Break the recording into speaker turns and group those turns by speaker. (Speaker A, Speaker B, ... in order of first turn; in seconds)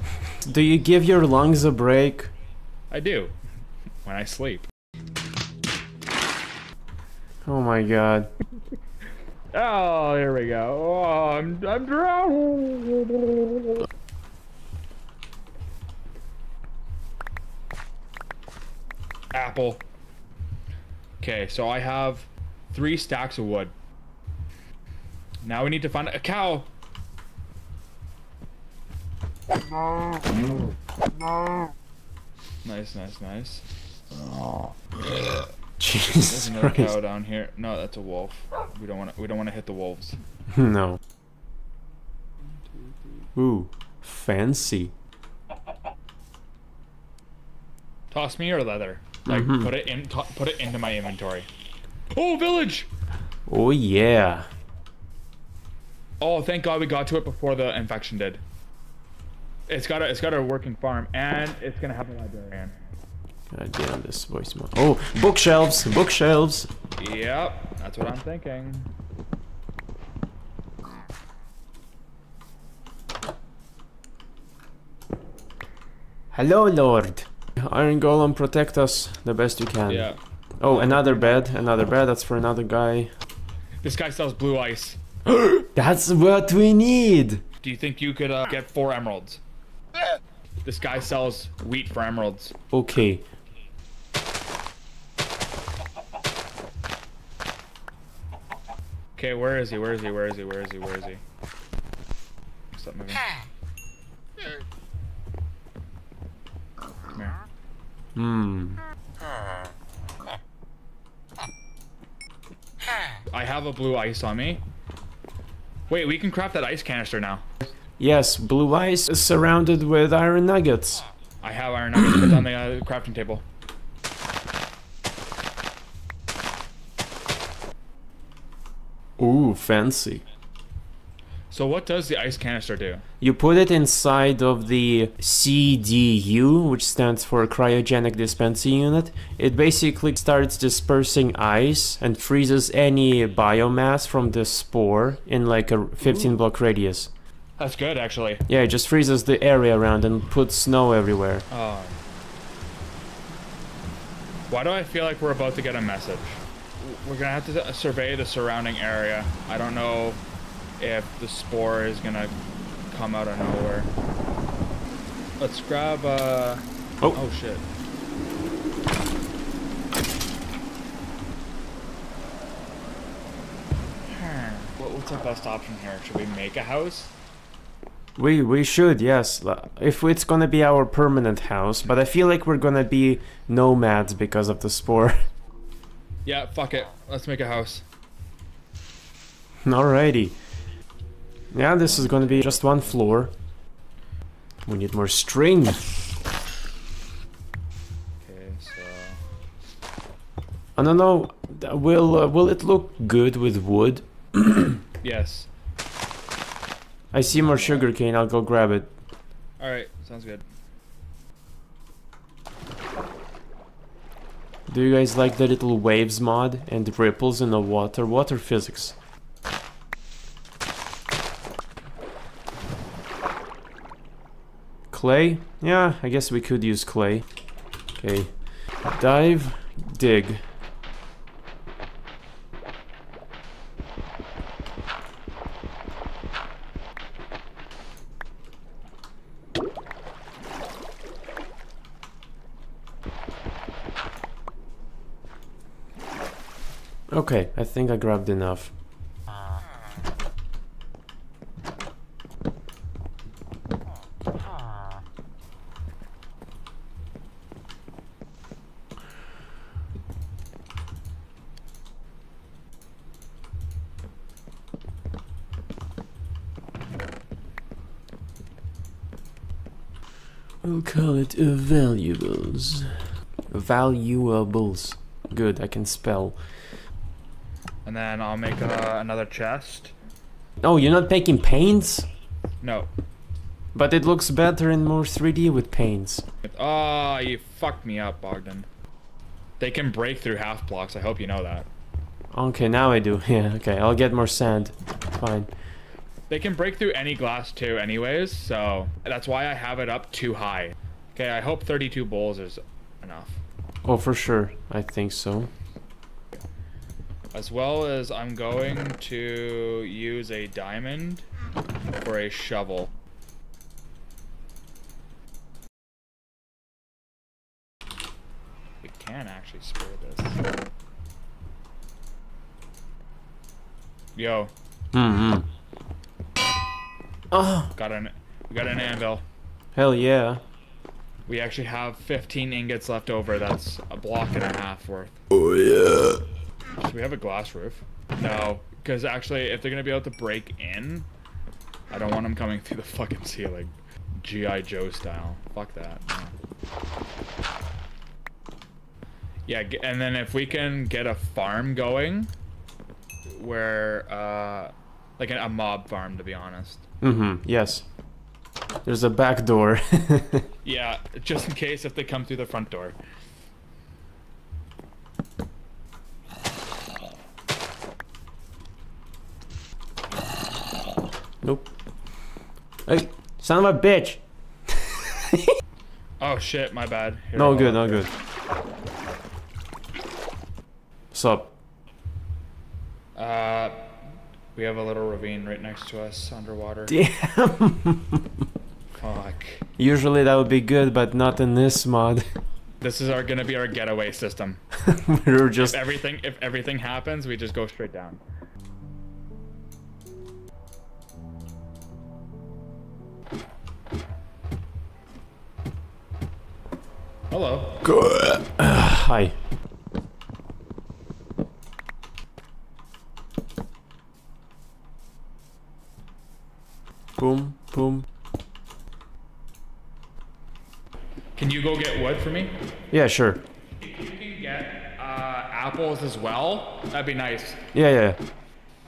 Speaker A: 0.4-2.3, 7.4-8.3, 35.8-36.9, 40.5-41.0, 43.4-44.9, 49.3-49.7, 53.5-54.5, 63.5-66.7, 76.3-80.1, 80.6-83.1, 85.2-87.4, 92.7-93.2, 108.1-108.8, 118.0-121.0, 129.2-130.2, 133.2-147.1, 148.5-151.4, 178.2-185.2, 189.6-190.3, 191.5-193.3, 194.6-195.9, 200.8-204.8, 207.1-208.9, 214.7-218.9, 224.9-227.2, 228.0-228.3, 228.8-230.4, 247.1-248.7, 270.6-272.9, 273.5-276.4, 280.6-282.1, 283.7-286.2, 292.3-295.5, 303.8-305.5, 324.9-325.5, 327.3-327.7, 329.7-330.4, 335.3-336.2, 357.0-357.8, 358.8-360.5, 371.4-371.7, 372.9-375.5, 377.4-378.1, 381.1-381.5, 386.9-388.3, 389.8-392.2, 394.8-395.8, 407.8-409.4, 417.2-418.1, 422.9-423.4, 427.7-428.2
Speaker B: 2.9-3.3, 4.0-4.7, 9.5-13.8, 19.3-19.8, 21.2-23.7, 25.4-26.7, 32.6-35.4, 36.1-40.2, 48.1-51.5, 52.1-52.9, 56.2-58.4, 59.7-62.8, 67.0-68.9, 79.9-81.4, 83.8-85.0, 87.6-89.4, 90.6-92.5, 99.2-101.2, 102.7-103.3, 113.3-114.6, 115.9-117.5, 121.4-123.4, 131.5-133.0, 147.6-148.4, 151.5-152.0, 154.5-160.2, 160.8-162.3, 162.9-163.9, 165.4-167.6, 174.1-177.1, 186.2-187.8, 192.4-192.8, 198.2-199.2, 205.0-205.5, 207.3-207.9, 209.6-210.4, 277.8-279.9, 282.6-282.9, 286.4-288.7, 289.6-291.7, 296.3-303.4, 307.3-311.2, 312.0-312.9, 318.8-320.4, 324.1-324.5, 327.7-329.2, 331.3-335.2, 336.8-341.1, 341.9-346.3, 349.5-352.3, 353.3-356.8, 360.6-363.0, 376.2-378.1, 383.1-383.8, 384.5-386.9, 389.0-389.6, 392.8-394.6, 395.6-398.2, 407.3-407.8, 421.4-422.5, 423.8-427.6